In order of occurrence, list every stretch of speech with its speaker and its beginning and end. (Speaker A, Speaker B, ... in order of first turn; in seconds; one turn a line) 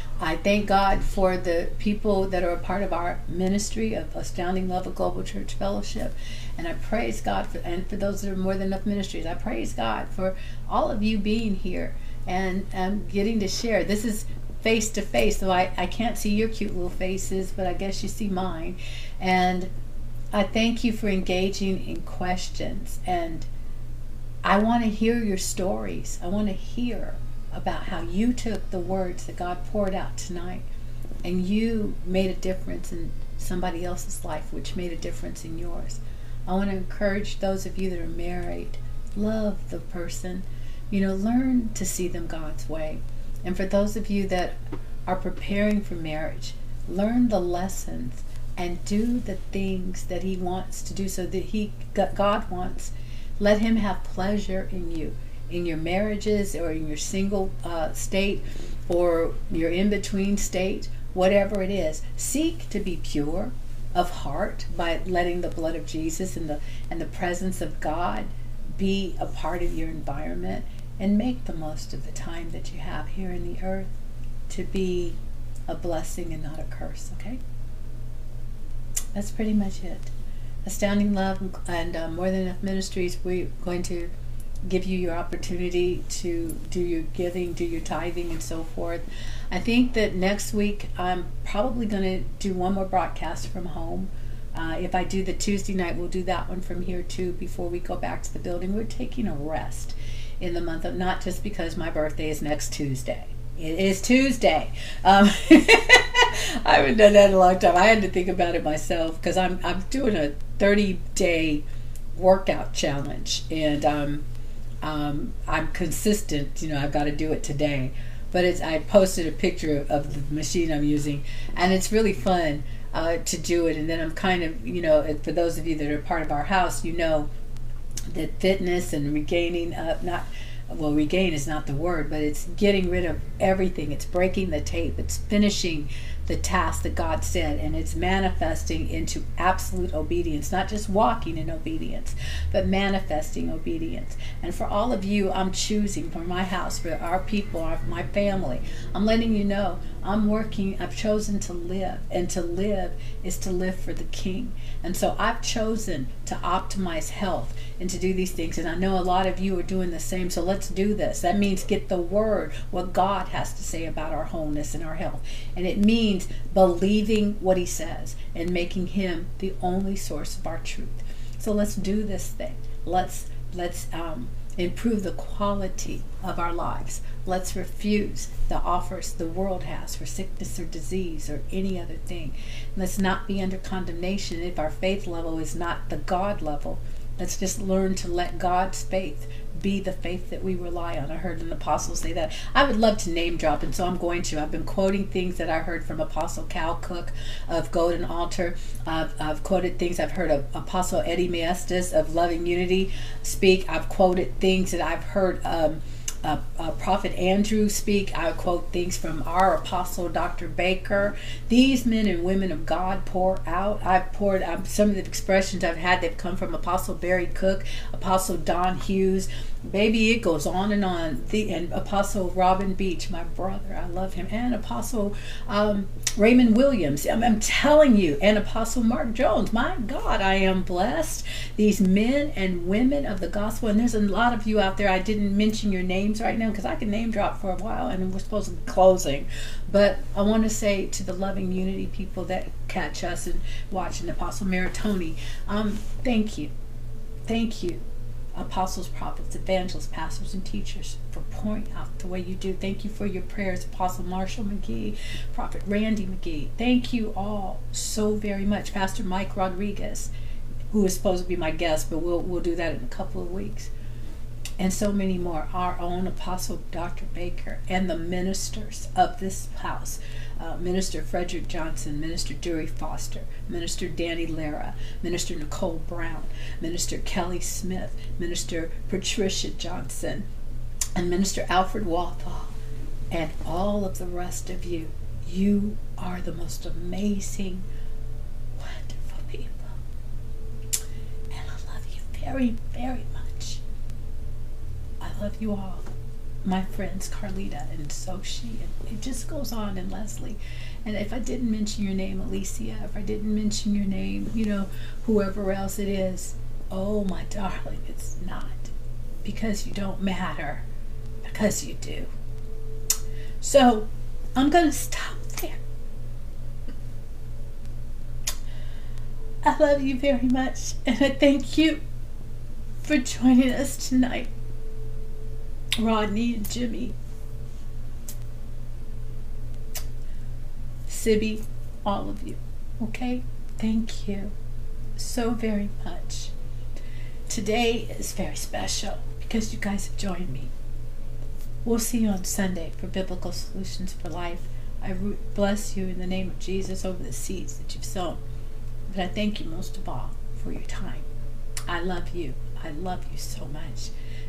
Speaker A: 0.2-19.7
Speaker A: 20.3-23.5
Speaker A: 24.4-30.6
Speaker A: 31.2-73.9
Speaker A: 74.5-75.2
Speaker A: 75.7-77.4
Speaker A: 79.1-80.1
Speaker A: 80.6-84.1
Speaker A: 84.6-114.2
Speaker A: 114.8-127.3
Speaker A: 128.1-246.5
Speaker A: 247.3-247.8
Speaker A: 248.3-260.1
Speaker A: 260.7-263.7
Speaker A: 264.6-280.2
Speaker A: 280.9-282.5
Speaker A: 283.1-287.6
Speaker A: 288.6-289.8
Speaker A: 291.3-293.6
Speaker A: 295.0-295.9
Speaker A: 296.4-308.7
Speaker A: 309.2-310.6
Speaker A: 311.2-312.1
Speaker A: 313.4-315.6
Speaker A: 319.4-321.8
Speaker A: 322.8-324.3
Speaker A: 325.8-326.9
Speaker A: 330.9-334.3
Speaker A: 335.0-336.3
Speaker A: 337.3-340.5
Speaker A: 341.6-348.2
Speaker A: 348.9-351.1
Speaker A: 351.7-353.9